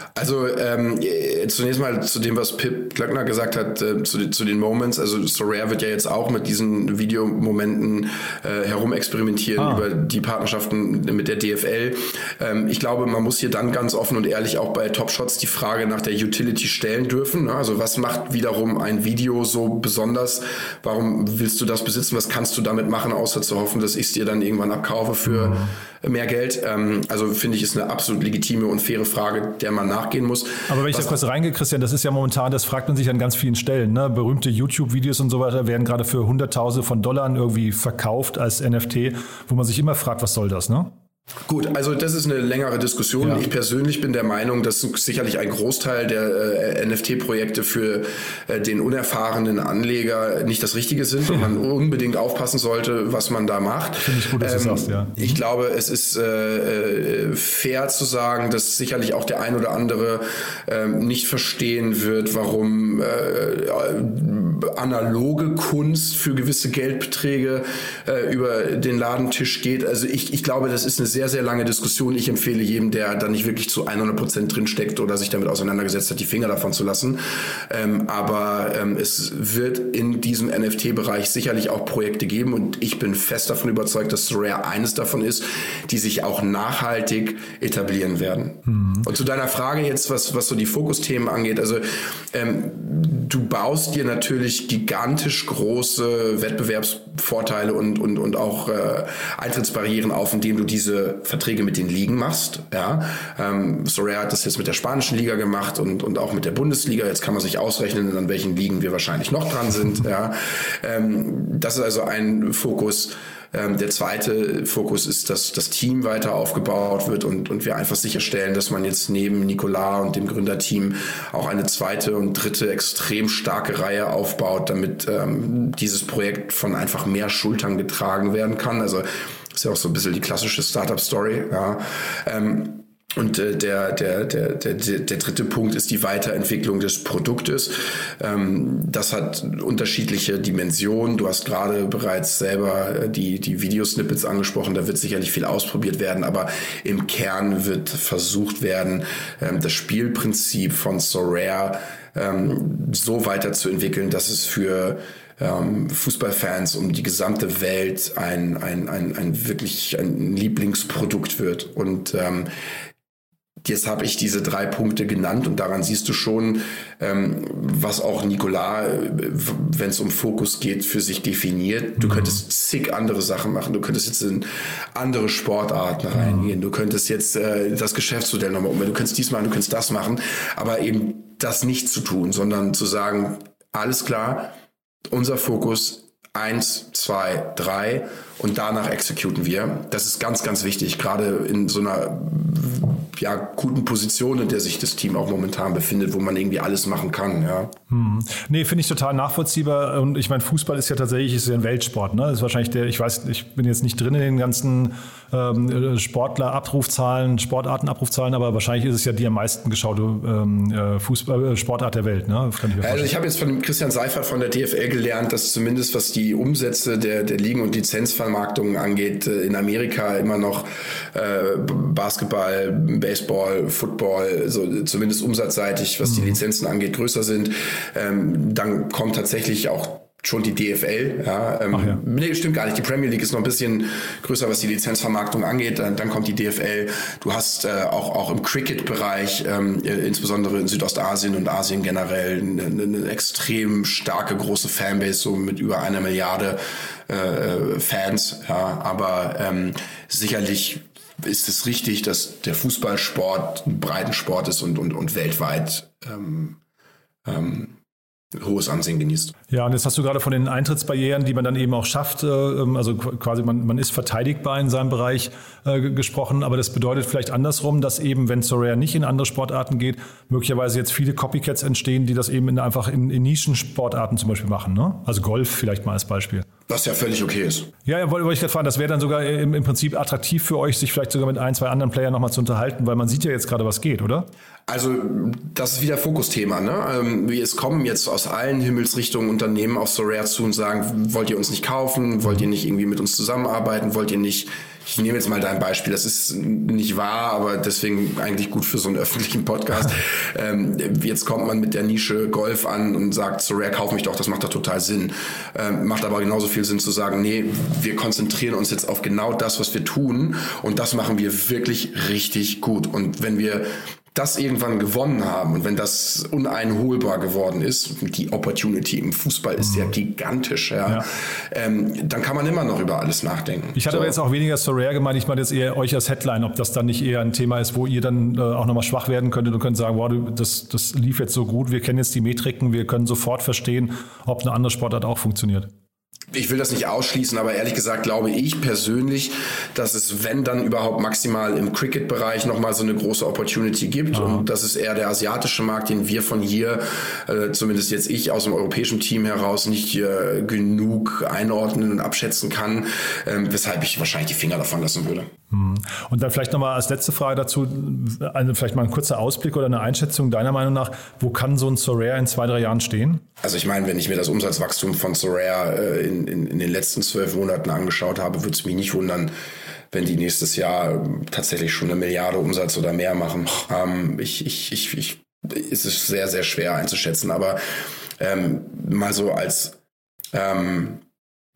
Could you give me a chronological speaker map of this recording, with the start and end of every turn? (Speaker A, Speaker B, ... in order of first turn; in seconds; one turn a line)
Speaker A: 0.2-31.2
Speaker B: 9.6-9.9
Speaker B: 25.3-25.7
Speaker B: 30.7-40.9
Speaker A: 41.5-162.5
Speaker B: 54.0-55.4
Speaker B: 88.7-89.1
Speaker A: 163.6-184.5
Speaker B: 176.2-176.5
Speaker A: 185.1-197.7
Speaker B: 197.9-213.1
Speaker A: 212.8-256.6
Speaker B: 231.7-232.0
Speaker A: 257.2-257.8
Speaker A: 258.4-259.4
Speaker B: 259.5-276.5
Speaker A: 276.7-277.7
Speaker B: 277.9-284.3
Speaker A: 284.7-324.2
Speaker B: 323.7-335.7
Speaker A: 336.3-355.3
Speaker B: 344.1-344.5
Speaker B: 355.5-363.2
Speaker A: 363.4-369.3
Speaker A: 369.9-377.6
Speaker A: 378.2-379.8
Speaker A: 380.3-381.0